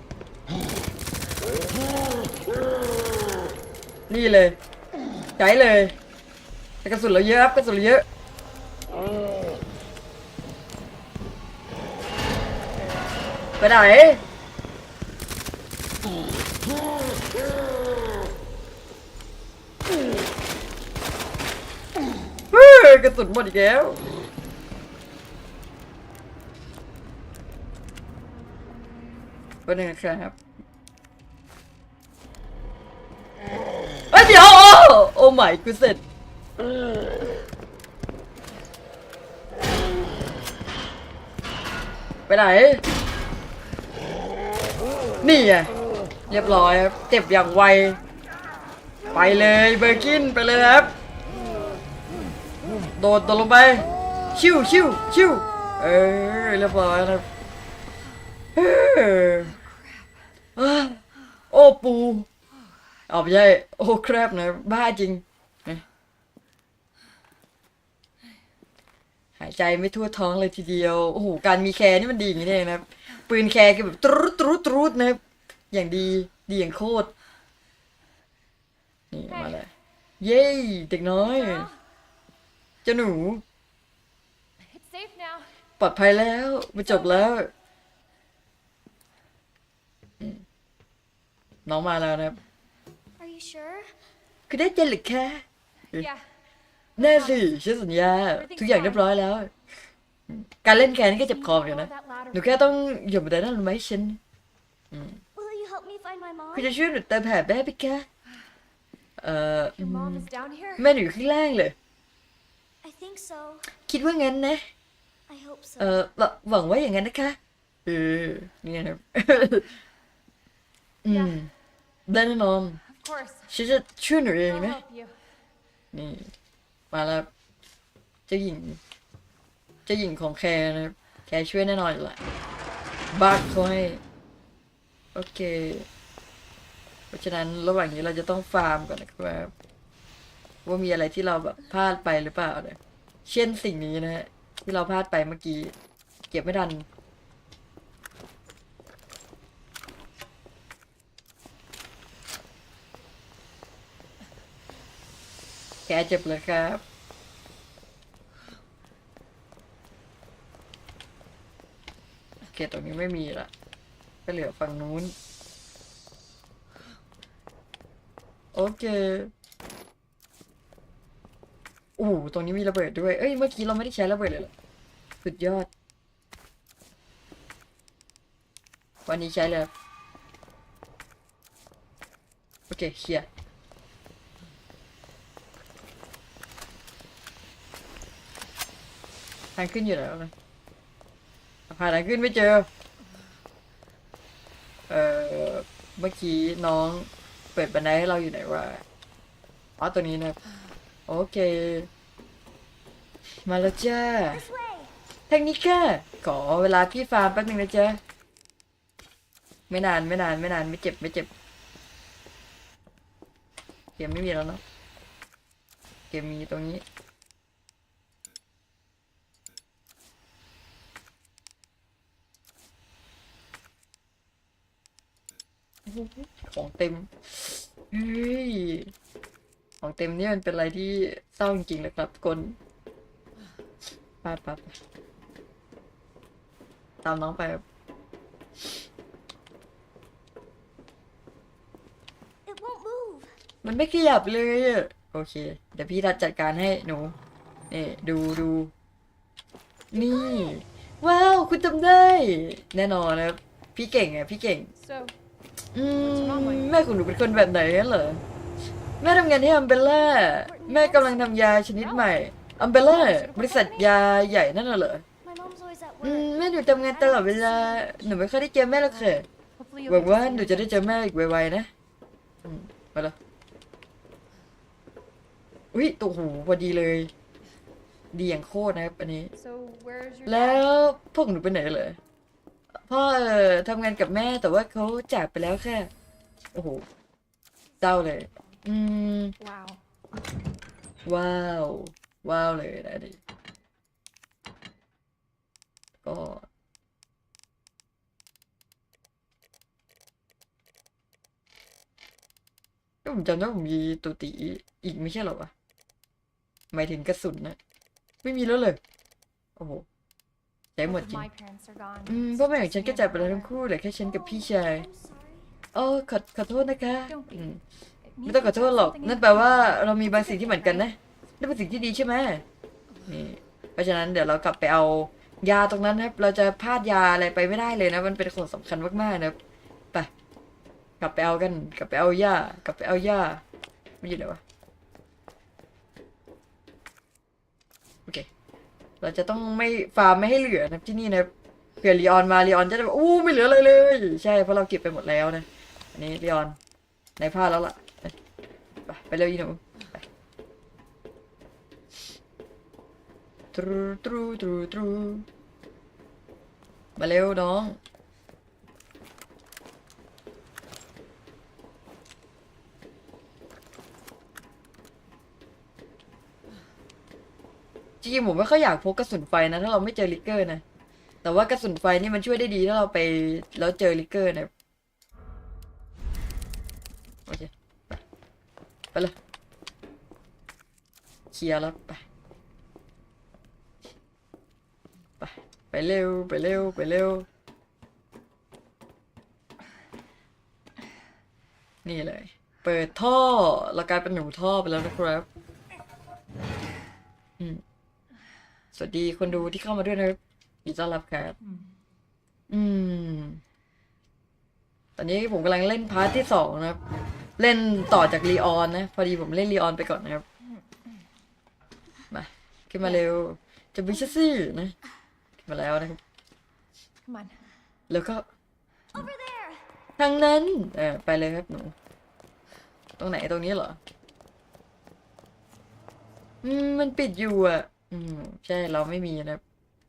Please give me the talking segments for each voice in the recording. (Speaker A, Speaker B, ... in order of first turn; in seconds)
Speaker A: 4.1-4.6, 5.4-6.0, 6.8-8.0, 13.6-14.2, 22.5-24.0, 29.6-30.4, 34.1-36.0, 42.3-42.8, 45.2-45.7, 46.3-48.0, 49.1-50.9, 52.9-57.2, 58.5-59.5, 60.5-62.3, 63.1-65.8, 69.4-75.2, 75.7-77.1, 79.1-81.7, 82.8-83.4, 85.8-87.5, 91.7-92.4, 94.5-96.1, 97.0-99.5, 100.3-104.2, 104.9-105.2, 106.5-108.1, 109.2-111.8, 113.7-114.7, 115.8-119.7, 121.0-121.5, 122.1-122.8, 123.5-124.8, 125.9-126.3, 126.9-127.3, 128.3-128.8, 129.9-132.2, 133.1-134.0, 135.1-135.9, 137.1-139.5, 140.6-145.7, 146.3-146.9, 155.9-156.8, 162.5-163.5, 164.2-165.1, 168.5-169.3, 172.0-174.5, 175.2-175.7, 179.1-179.7, 182.7-183.3, 189.6-190.3, 191.7-192.7, 194.9-198.8, 199.8-200.4, 201.1-201.9, 203.4-204.5, 205.3-208.0, 209.7-211.3, 214.0-214.6, 216.1-216.8, 225.9-228.9, 229.8-232.6, 234.2-234.7, 237.0-237.6, 243.6-247.1, 247.7-248.7, 249.9-254.7, 255.8-258.2, 259.0-265.0, 266.0-269.2, 269.9-271.7, 272.4-273.1, 275.7-277.1, 278.1-279.3, 280.2-282.0, 282.9-285.9, 286.5-286.9, 287.8-289.4, 291.0-293.2, 296.0-296.5, 303.0-305.5, 306.7-307.6, 308.2-308.8, 309.6-309.9, 310.8-311.3, 312.1-314.9, 315.7-317.6, 318.2-322.4, 323.1-329.4, 331.0-333.4, 334.0-334.4, 339.0-346.6, 347.2-348.1, 348.9-350.0, 353.5-355.2, 357.0-357.8, 368.0-370.6, 371.2-374.5, 377.3-378.0, 381.3-382.0, 385.2-387.3, 391.8-395.3, 398.7-401.4, 402.5-403.4, 405.0-406.8, 407.4-410.2, 412.1-414.8, 415.4-416.0, 417.9-418.3, 420.0-421.8, 423.0-423.8, 426.4-429.4
Speaker B: 59.5-60.1, 79.3-79.6, 81.2-81.7, 84.7-85.5, 95.9-96.2, 97.0-97.5, 98.3-99.0, 101.1-102.7, 109.8-110.9, 121.1-121.4, 123.0-123.5, 124.5-125.2, 254.8-255.1, 256.0-256.8, 261.8-262.1, 262.9-263.9, 269.0-270.9, 279.3-280.6, 289.4-289.8, 310.8-313.5, 317.1-317.5, 318.1-320.9, 417.1-417.4
Speaker C: 93.2-94.1, 105.3-106.8, 112.8-113.7, 115.3-116.0, 204.3-204.9, 242.5-243.4, 249.9-250.6, 260.2-261.6, 265.2-268.0, 314.0-315.5, 418.9-419.7